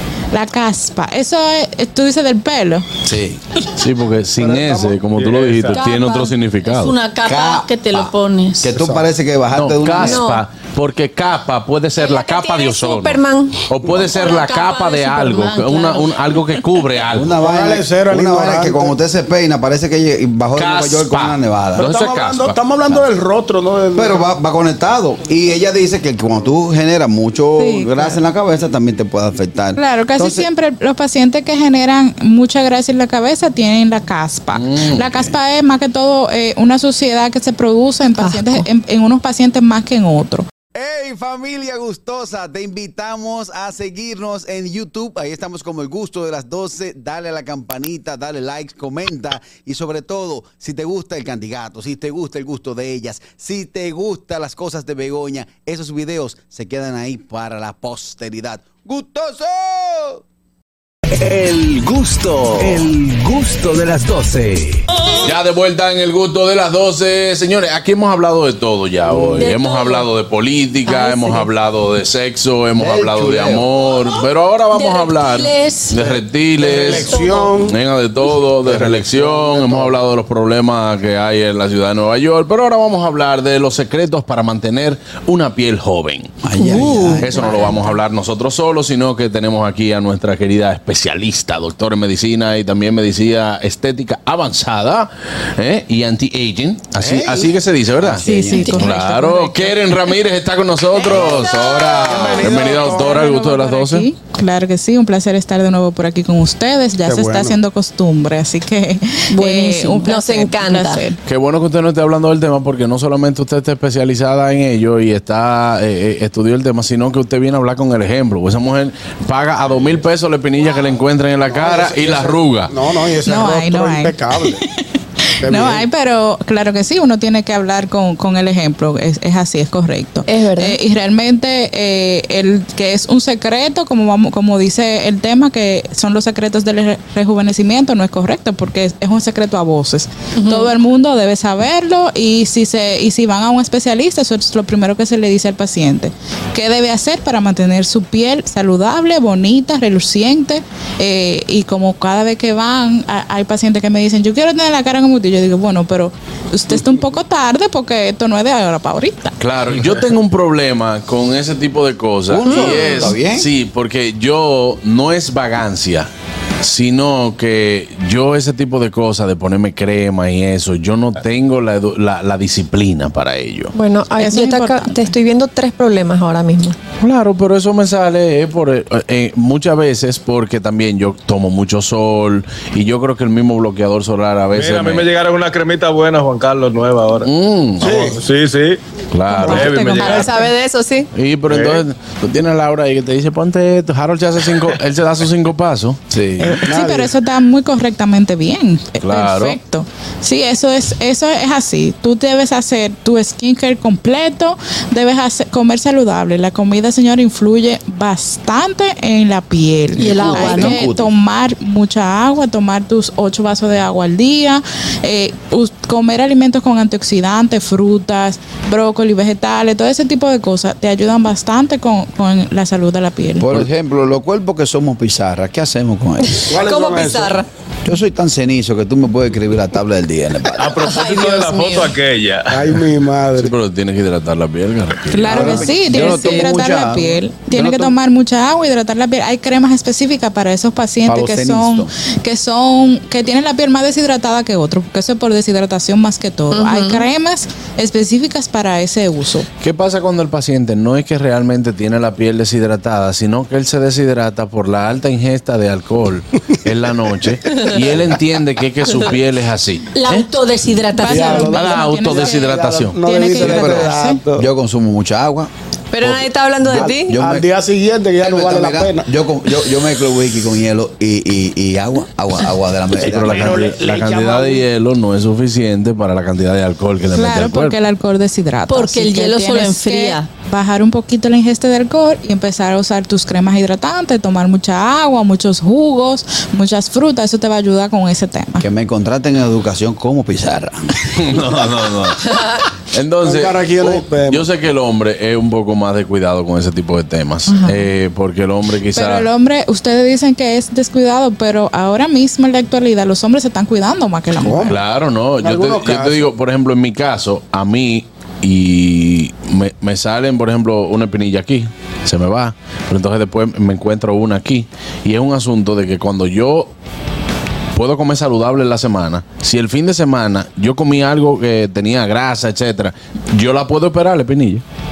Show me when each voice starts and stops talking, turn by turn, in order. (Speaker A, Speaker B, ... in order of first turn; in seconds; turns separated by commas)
Speaker A: 0.3-2.9, Speaker B: 3.0-3.4, Speaker C: 3.8-7.0, Speaker D: 4.4-5.0, Speaker E: 5.1-6.0, Speaker F: 5.7-8.8, Speaker G: 5.9-6.3, Speaker B: 7.2-10.2, Speaker C: 9.5-17.3, Speaker G: 10.0-10.4, Speaker G: 12.0-13.7, Speaker F: 14.1-16.5, Speaker B: 17.1-21.9, Speaker D: 17.4-19.0, Speaker C: 20.6-23.1, Speaker D: 21.8-24.3, Speaker B: 23.9-30.5, Speaker G: 27.6-28.2, Speaker A: 29.8-40.5, Speaker C: 34.5-35.3, Speaker G: 38.2-38.6, Speaker B: 40.8-60.2, Speaker H: 61.1-64.8, Speaker B: 62.6-62.9, Speaker C: 65.2-86.4, Speaker F: 69.1-70.1, Speaker G: 70.9-71.1, Speaker F: 71.1-71.5, Speaker B: 72.8-73.7, Speaker F: 74.0-76.0, Speaker D: 76.2-77.8, Speaker F: 76.8-77.6, Speaker D: 78.6-80.0, Speaker B: 86.4-87.8, Speaker G: 86.6-87.6, Speaker C: 87.2-104.1, Speaker B: 97.0-98.8, Speaker A: 98.2-99.8, Speaker D: 101.1-103.2, Speaker F: 101.6-102.1, Speaker A: 102.4-111.2, Speaker D: 107.0-107.6, Speaker G: 109.3-111.0, Speaker C: 111.2-122.8, Speaker D: 121.5-124.6, Speaker A: 123.2-124.8, Speaker D: 125.4-125.8, Speaker A: 125.4-159.3, Speaker G: 130.3-130.8, Speaker F: 140.4-140.7, Speaker C: 159.4-166.1, Speaker B: 162.3-163.5, Speaker G: 162.7-163.1, Speaker C: 166.6-173.8, Speaker G: 173.8-176.8, Speaker A: 174.2-175.0, Speaker C: 177.0-185.1, Speaker E: 184.5-188.8, Speaker C: 187.2-188.0, Speaker D: 187.8-188.2, Speaker C: 189.1-190.3, Speaker D: 189.3-190.3, Speaker A: 189.4-189.7, Speaker E: 189.5-190.3, Speaker G: 189.8-191.1, Speaker C: 191.1-196.7, Speaker E: 191.5-191.8, Speaker A: 196.4-223.5, Speaker D: 196.7-197.1, Speaker C: 199.0-199.6, Speaker F: 210.0-210.8, Speaker B: 210.0-211.1, Speaker B: 223.4-226.5, Speaker G: 226.2-227.5, Speaker D: 226.5-227.4, Speaker B: 227.8-230.8, Speaker E: 230.6-232.9, Speaker G: 230.9-231.9, Speaker D: 232.5-233.6, Speaker C: 233.4-236.1, Speaker A: 235.1-249.5, Speaker B: 235.3-237.9, Speaker G: 236.1-236.6, Speaker B: 241.1-241.9, Speaker G: 246.5-247.1, Speaker C: 249.6-260.3, Speaker F: 259.9-261.8, Speaker A: 261.0-264.2, Speaker D: 261.0-264.5, Speaker C: 261.4-263.0, Speaker B: 263.4-265.5, Speaker G: 265.9-267.1, Speaker B: 266.6-267.5, Speaker D: 266.7-269.1, Speaker B: 268.2-273.8, Speaker C: 272.9-277.8, Speaker D: 273.1-274.6, Speaker A: 277.1-288.6, Speaker F: 278.7-280.3, Speaker B: 288.6-291.0, Speaker C: 291.1-299.3, Speaker D: 293.2-294.5, Speaker G: 297.5-297.8, Speaker A: 298.9-304.8, Speaker D: 304.4-304.8, Speaker C: 304.6-316.7, Speaker D: 305.4-306.2, Speaker C: 317.8-324.6